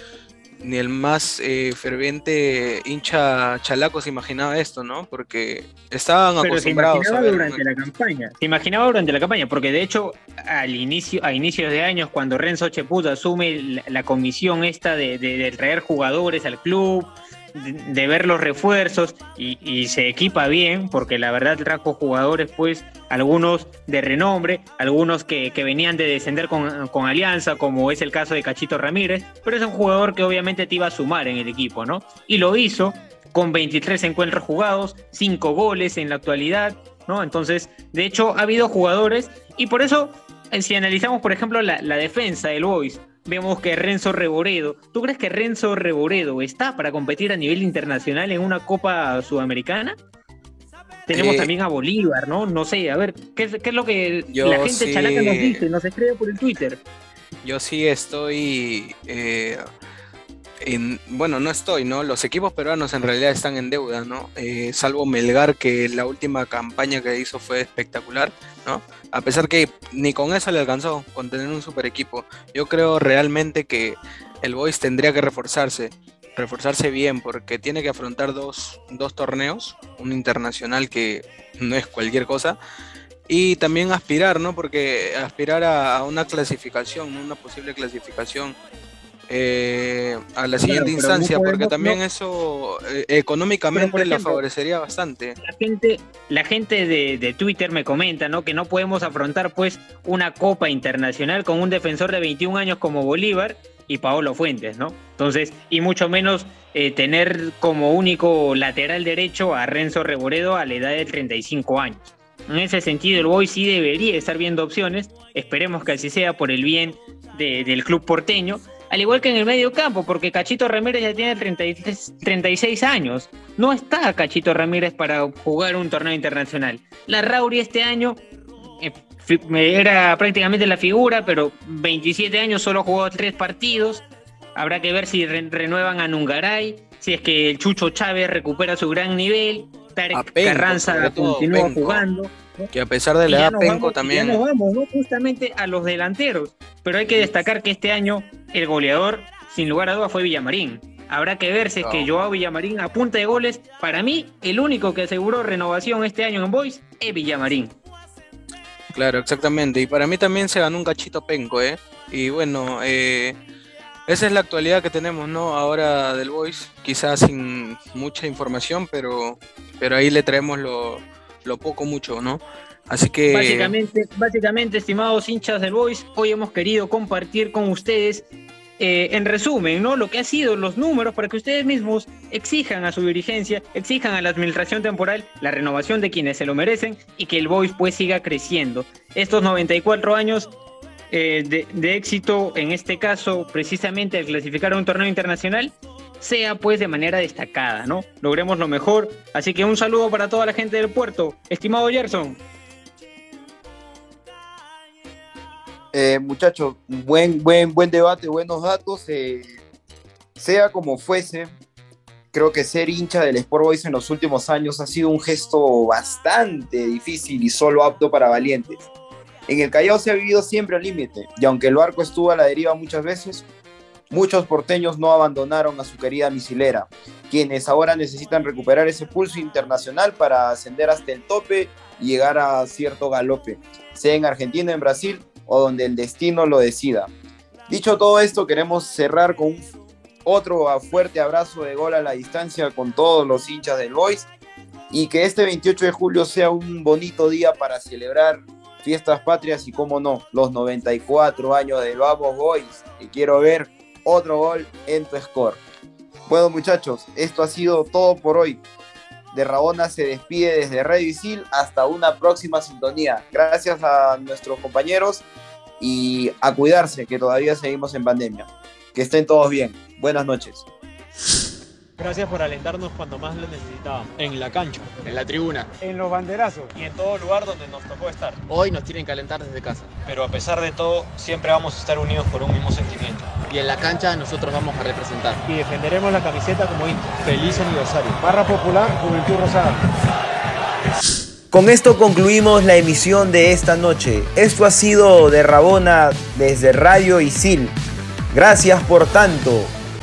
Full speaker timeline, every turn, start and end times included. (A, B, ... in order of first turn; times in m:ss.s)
0:00.6-0:07.6 A
0:06.4-0:50.0 B
0:51.1-0:56.8 B
0:51.1-0:51.5 A
0:54.3-0:55.6 A
0:57.4-0:59.6 A
1:00.6-1:22.6 A
1:23.3-1:28.6 A
1:29.3-1:35.4 A
1:30.6-1:32.0 B
1:33.7-1:34.4 B
1:35.4-2:08.2 B
2:08.8-2:22.7 B
2:20.1-2:22.0 A
2:22.7-2:24.4 A
2:23.3-2:37.8 B
2:31.8-2:32.1 A
2:38.9-2:43.4 A
2:44.1-2:53.7 A
2:53.3-2:58.3 B
2:58.8-3:10.5 B
3:11.1-3:22.4 B
3:25.9-3:29.6 C
3:30.4-3:31.5 C
3:32.3-3:38.9 C
3:39.5-3:43.4 C
3:44.1-3:57.1 C
3:57.7-3:59.7 C
4:00.2-4:04.3 C
4:04.9-4:15.6 C
4:16.3-4:18.6 C
4:19.3-4:25.2 C
4:25.8-4:30.7 C
4:32.0-4:35.0 D
4:35.0-4:35.7 E
4:35.8-4:38.4 D
4:38.5-4:39.9 E
4:40.0-4:43.3 D
4:43.5-4:45.4 E
4:45.4-4:49.9 D
4:51.5-4:57.8 C
4:58.3-4:59.8 C